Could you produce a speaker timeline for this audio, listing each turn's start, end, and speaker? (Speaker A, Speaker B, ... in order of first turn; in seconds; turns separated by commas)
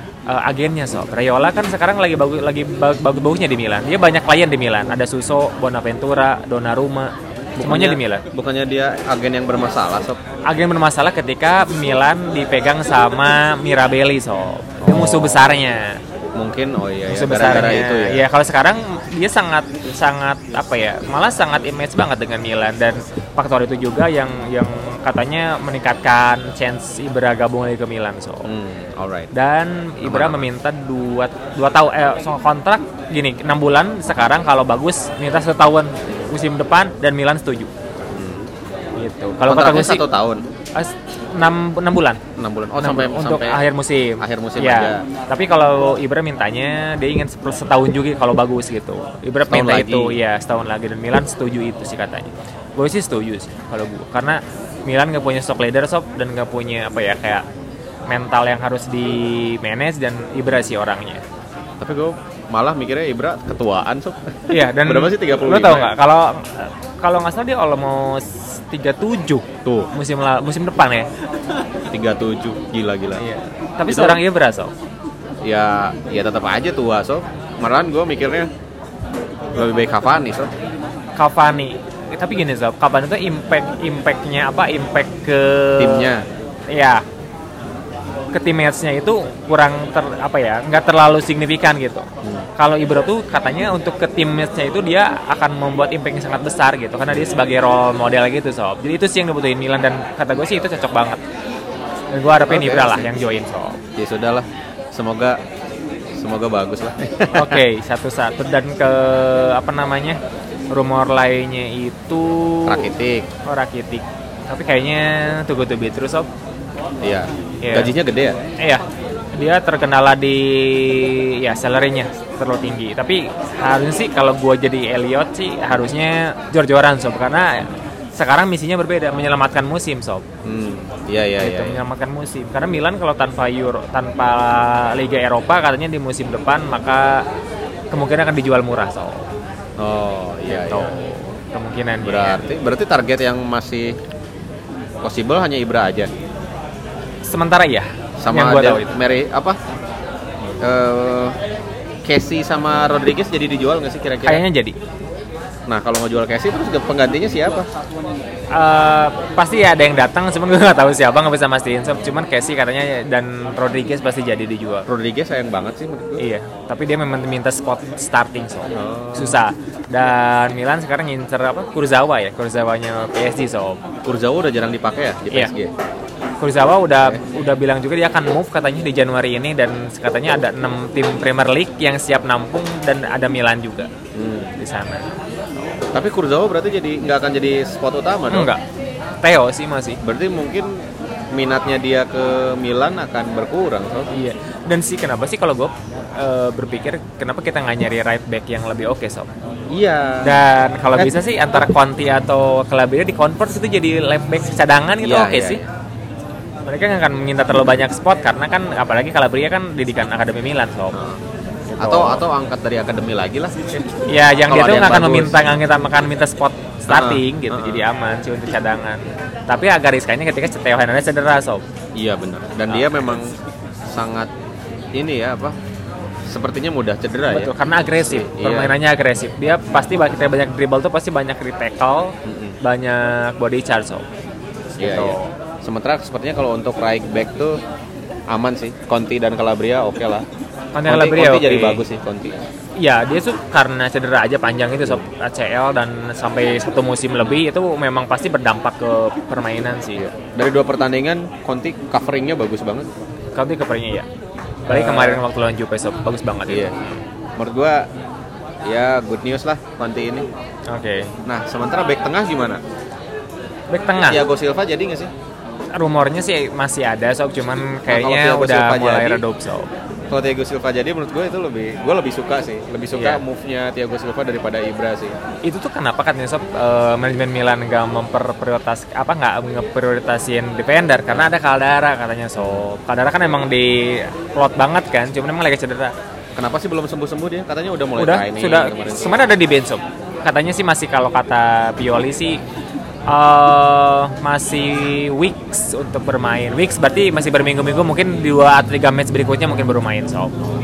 Speaker A: 0.3-8.2, Speaker B: 7.6-10.2, Speaker A: 10.5-16.0, Speaker B: 14.8-15.5, Speaker B: 16.4-18.2, Speaker A: 17.1-28.5, Speaker B: 28.4-29.3, Speaker A: 29.3-37.7, Speaker B: 30.0-30.5, Speaker B: 38.1-38.5, Speaker A: 39.0-40.0, Speaker B: 39.5-40.5, Speaker A: 40.8-42.2, Speaker B: 42.4-43.6, Speaker A: 42.8-57.4, Speaker B: 44.2-45.0, Speaker B: 49.5-50.2, Speaker A: 58.1-61.2, Speaker B: 61.8-65.9, Speaker A: 64.5-71.1, Speaker B: 69.7-69.9, Speaker B: 71.9-73.2, Speaker A: 73.2-74.7, Speaker B: 73.9-74.2, Speaker B: 75.4-78.5, Speaker B: 79.5-80.5, Speaker A: 81.2-86.1, Speaker B: 85.8-86.2, Speaker A: 86.7-87.0, Speaker A: 88.3-101.2, Speaker B: 97.1-97.3, Speaker A: 102.1-103.8, Speaker B: 102.5-103.1, Speaker B: 104.0-105.4, Speaker B: 106.2-107.6, Speaker A: 107.3-110.2, Speaker A: 110.7-112.9, Speaker B: 112.7-113.3, Speaker A: 113.5-116.3, Speaker B: 117.0-118.4, Speaker A: 117.6-117.9, Speaker A: 119.3-130.2, Speaker B: 130.4-131.8, Speaker A: 131.4-137.2, Speaker A: 137.9-139.3, Speaker B: 139.8-140.9, Speaker A: 140.5-142.4, Speaker B: 142.0-143.9, Speaker B: 145.0-146.1, Speaker A: 147.2-148.9, Speaker B: 148.2-149.6, Speaker B: 150.6-151.4, Speaker B: 152.1-154.4, Speaker A: 154.2-154.8, Speaker B: 155.7-157.7, Speaker A: 158.5-164.9, Speaker B: 164.9-166.2, Speaker A: 166.2-173.8, Speaker B: 168.7-169.4, Speaker B: 174.1-175.7, Speaker A: 176.4-183.9, Speaker B: 184.1-184.5, Speaker A: 184.6-185.8, Speaker B: 185.9-188.5, Speaker A: 188.3-188.6, Speaker A: 189.2-190.0, Speaker B: 190.0-190.8, Speaker B: 191.3-194.1, Speaker A: 194.1-199.3, Speaker B: 199.7-200.4, Speaker A: 200.2-205.6, Speaker B: 205.0-205.7, Speaker A: 206.7-211.0, Speaker B: 210.9-211.2, Speaker A: 211.7-212.2, Speaker B: 211.8-213.6, Speaker A: 214.1-221.6, Speaker B: 214.5-215.6, Speaker B: 216.9-217.9, Speaker B: 222.0-223.4, Speaker B: 223.9-224.3, Speaker B: 224.9-225.6, Speaker B: 226.3-228.8, Speaker A: 227.3-234.1, Speaker B: 232.2-232.6, Speaker B: 234.8-237.6, Speaker A: 234.8-235.3, Speaker B: 238.3-240.2, Speaker A: 240.8-241.8, Speaker B: 240.9-242.4, Speaker A: 242.8-250.1, Speaker B: 250.0-252.9, Speaker A: 253.3-254.1, Speaker A: 254.7-257.0, Speaker B: 254.7-255.2, Speaker B: 256.5-256.8, Speaker B: 257.4-257.9, Speaker B: 258.7-260.3, Speaker A: 260.7-261.1, Speaker B: 261.3-262.6, Speaker A: 263.7-264.2, Speaker B: 264.1-265.1, Speaker A: 265.7-269.7, Speaker B: 267.9-269.2, Speaker B: 270.1-275.1, Speaker A: 272.9-273.2, Speaker A: 275.4-285.9, Speaker B: 286.4-289.2, Speaker A: 288.0-292.4, Speaker A: 293.1-300.4